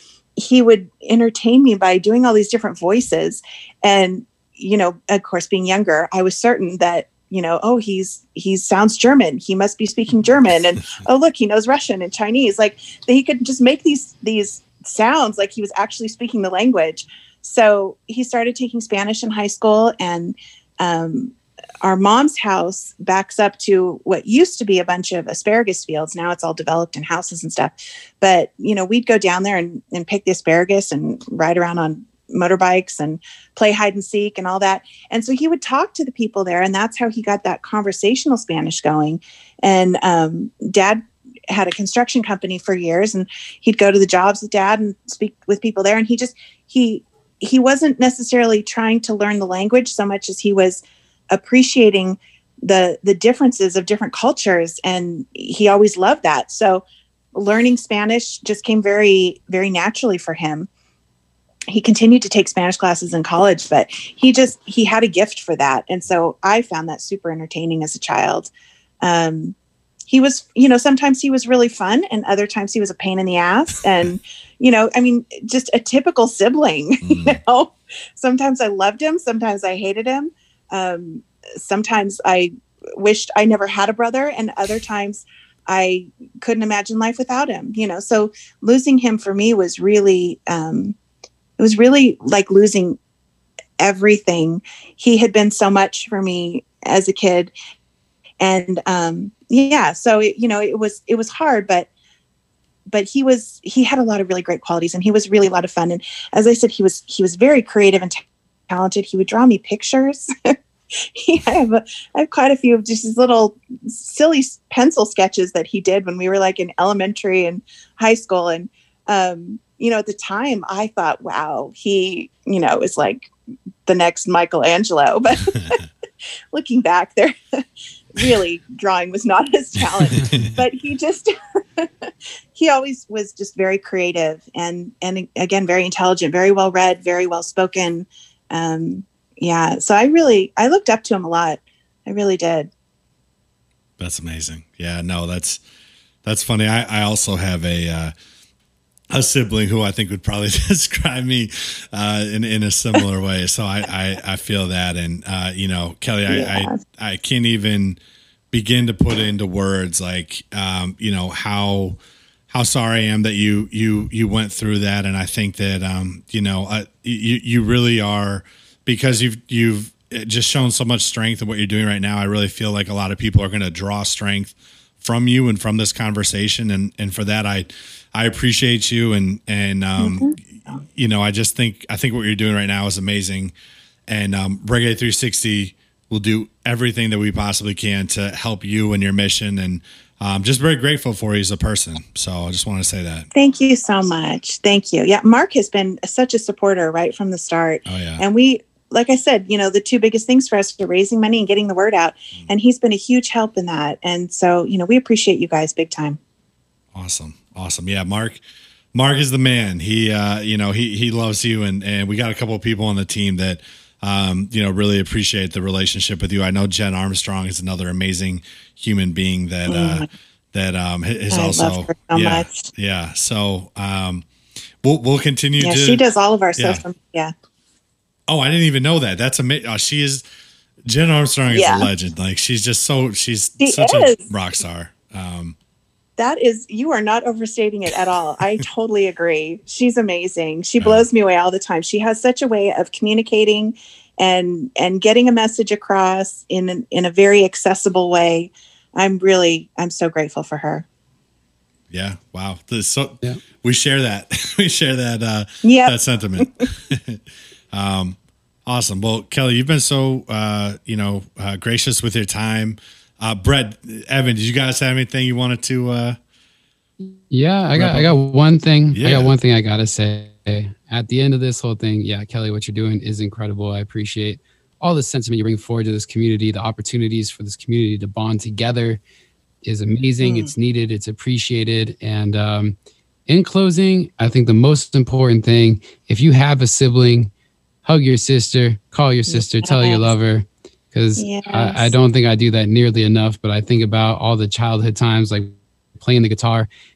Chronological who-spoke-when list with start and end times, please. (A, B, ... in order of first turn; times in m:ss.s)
0:00.4-1:00.7 A
1:01.7-1:09.6 A
1:10.1-1:31.0 A
1:17.0-1:17.4 B
1:31.6-1:33.0 A
1:33.8-1:37.5 A
1:38.4-1:41.9 A
1:42.9-1:50.5 A
1:51.2-2:03.3 A
2:03.9-2:05.8 A
2:06.5-2:07.6 A
2:08.2-2:11.9 A
2:10.2-2:10.5 B
2:12.6-2:22.7 A
2:24.0-2:25.6 B
2:26.2-2:28.1 B
2:29.1-2:38.0 B
2:36.3-2:36.8 A
2:38.5-2:42.0 B
2:42.5-3:03.5 B
3:00.0-3:00.3 A
3:04.1-3:13.3 B
3:13.3-3:26.2 A
3:17.9-3:18.2 B
3:26.9-3:28.4 B
3:28.9-3:44.3 B
3:39.7-3:40.1 A
3:41.3-3:42.6 A
3:44.8-3:46.0 B
3:45.6-3:47.3 A
3:46.6-3:46.8 B
3:48.3-3:50.2 B
3:50.9-3:55.6 B
3:51.5-3:51.9 A
3:53.6-3:54.3 A
3:56.2-4:10.8 A
4:11.9-4:17.2 B
4:15.6-4:16.5 A
4:17.7-4:26.2 B
4:27.0-4:39.0 C
4:27.8-4:28.1 B
4:28.9-4:29.4 B
4:39.6-4:42.7 C
4:40.2-4:40.5 A
4:43.3-4:47.3 C
4:47.8-4:56.7 C
4:49.3-4:50.1 A
4:51.2-4:51.9 A